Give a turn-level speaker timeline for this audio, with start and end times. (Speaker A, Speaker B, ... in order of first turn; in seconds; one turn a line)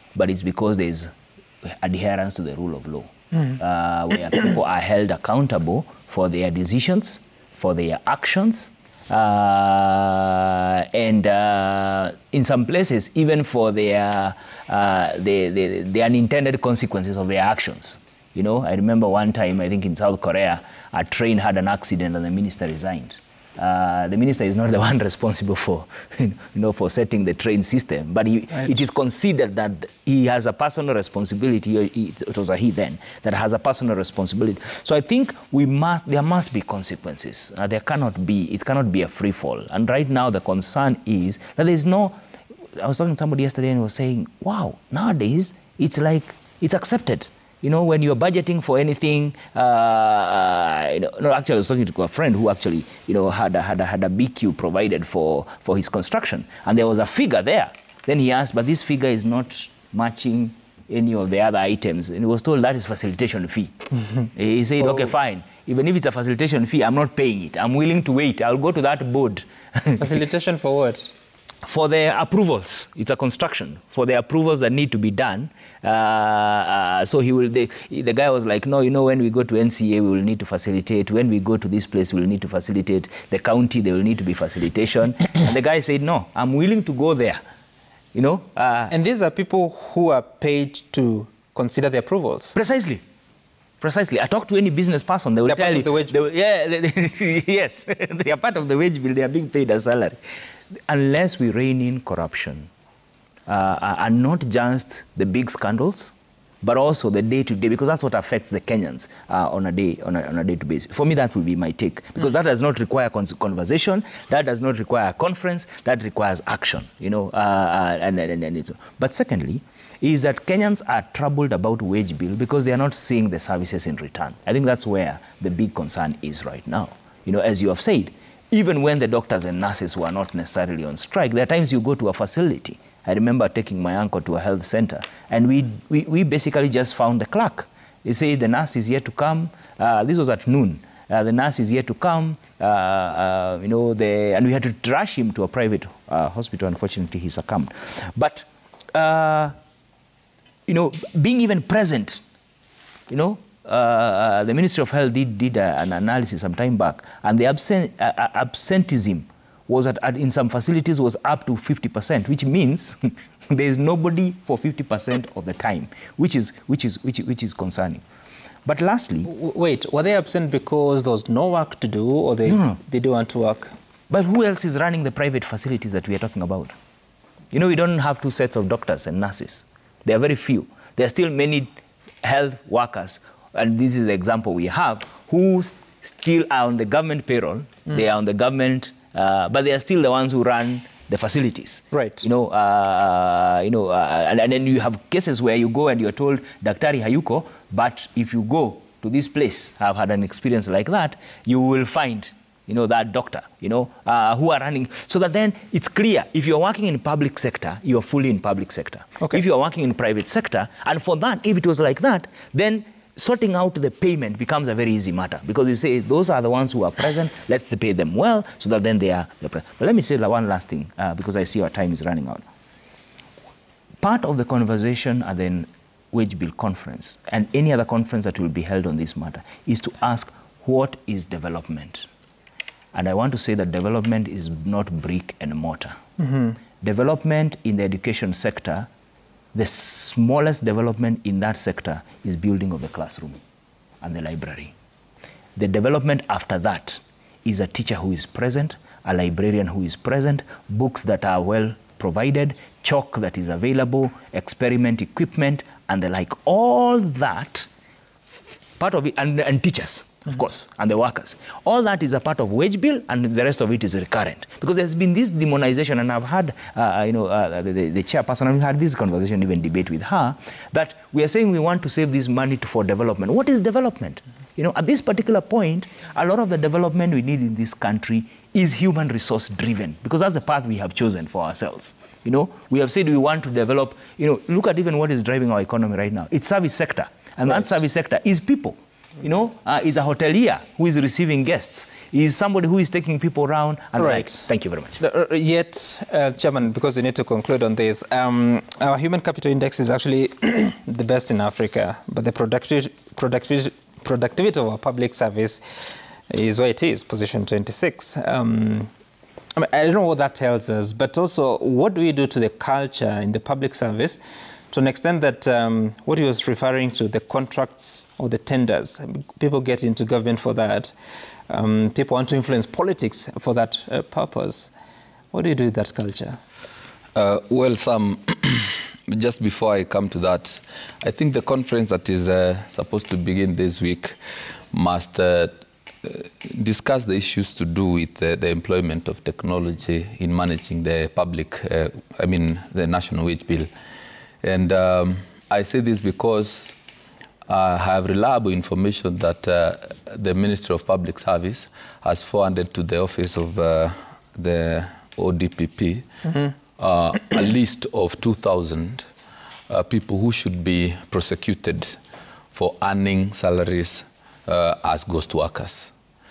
Speaker A: 0.1-42.2
Speaker A: 42.8-63.7
Speaker A: 64.3-70.1
Speaker B: 64.8-65.1
Speaker B: 70.0-71.1
Speaker A: 71.6-87.4
Speaker A: 88.1-88.9
Speaker B: 88.9-92.5
Speaker A: 92.5-93.0
Speaker A: 93.8-100.2
Speaker B: 95.5-96.1
Speaker A: 100.9-102.7
Speaker A: 103.5-149.5
Speaker A: 150.7-152.2
Speaker A: 153.1-168.0
Speaker A: 168.6-169.3
Speaker B: 169.2-173.7
Speaker A: 172.4-172.8
Speaker A: 174.1-176.7
Speaker A: 177.5-181.7
Speaker A: 182.2-222.4
Speaker B: 191.9-192.2
Speaker A: 224.0-232.1
Speaker A: 232.9-236.0
Speaker B: 236.2-236.6
Speaker A: 236.8-238.9
Speaker A: 239.5-243.4
Speaker A: 244.0-244.7
Speaker A: 245.6-257.7
Speaker A: 258.3-295.0
Speaker B: 294.0-294.4
Speaker B: 295.0-305.6
Speaker B: 306.3-308.9
Speaker B: 309.5-314.2
Speaker B: 314.7-320.9
Speaker B: 321.5-324.7
Speaker B: 325.3-326.4
Speaker C: 327.1-334.2
Speaker C: 334.7-343.7
Speaker C: 344.4-346.7
Speaker C: 347.5-356.1
Speaker C: 356.8-359.1
Speaker C: 359.7-362.0
Speaker C: 362.5-365.9